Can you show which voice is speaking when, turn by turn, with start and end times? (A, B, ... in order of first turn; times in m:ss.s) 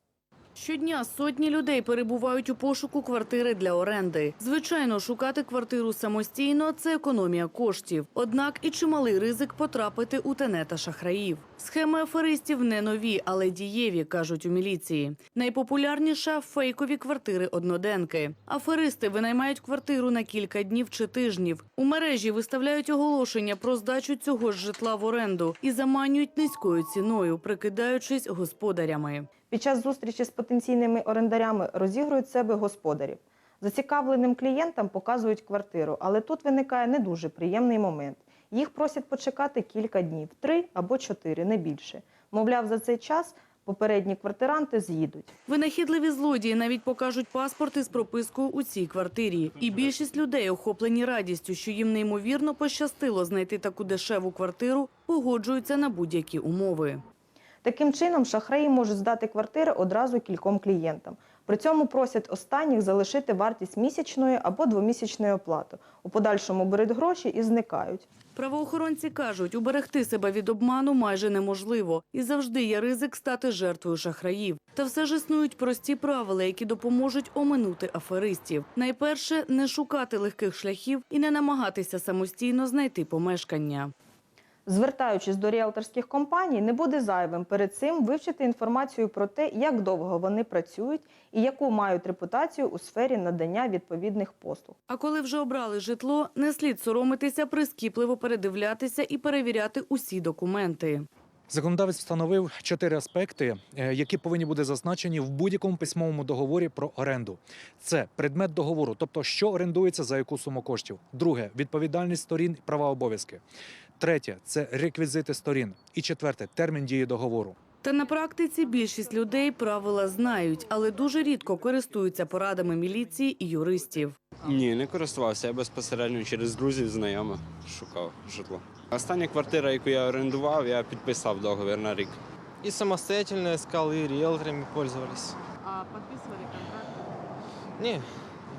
0:00.6-0:29.3 A
0:29.5-0:45.3 B
0:45.5-0:57.0 A
0:57.6-1:08.1 B
1:08.4-1:23.9 A
1:24.7-1:34.8 B
1:34.9-1:41.1 A
1:41.5-1:53.4 C
1:54.0-1:57.6 C
1:57.8-2:04.2 A
2:04.4-2:12.2 D
2:12.6-2:15.4 E
2:17.8-2:18.1 E